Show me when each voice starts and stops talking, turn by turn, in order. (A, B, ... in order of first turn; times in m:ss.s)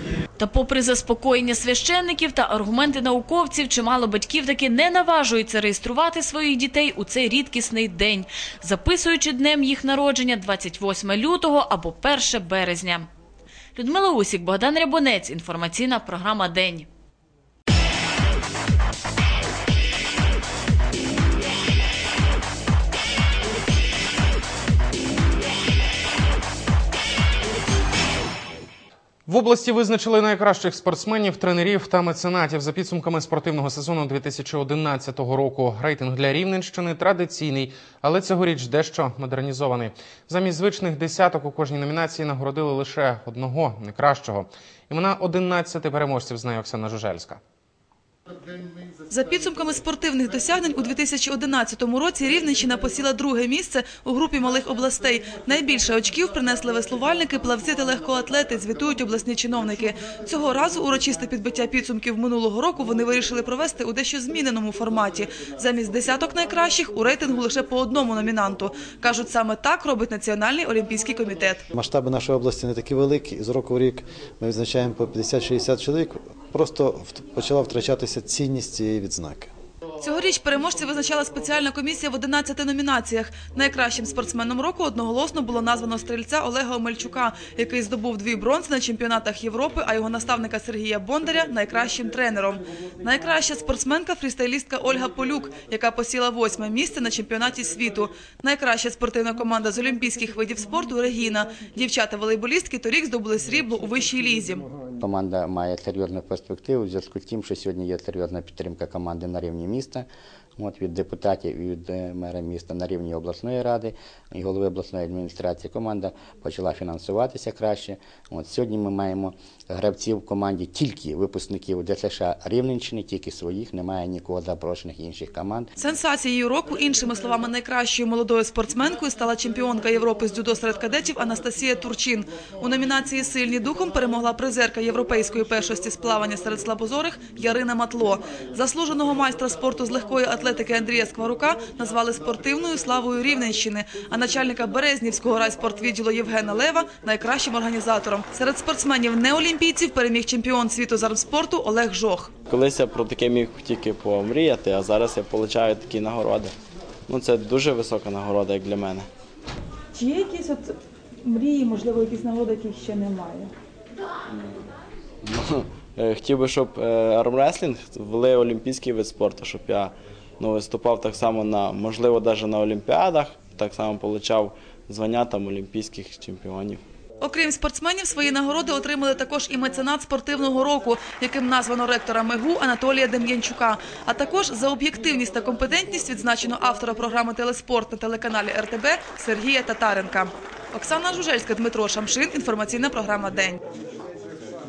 0:00.4-0:13.1 A
0:13.8-0:16.9 A
0:29.3-0:47.4 B
0:49.1-1:11.6 C
1:11.7-1:19.5 D
1:20.0-1:44.6 C
1:45.0-2:05.7 E
2:05.8-2:32.3 C
2:32.5-2:36.5 F
2:37.1-2:39.1 F
2:40.0-2:40.5 G
2:41.4-2:41.9 G
2:42.4-2:43.5 G
2:44.3-2:44.6 F
2:45.2-2:56.8 F
2:57.2-3:13.6 C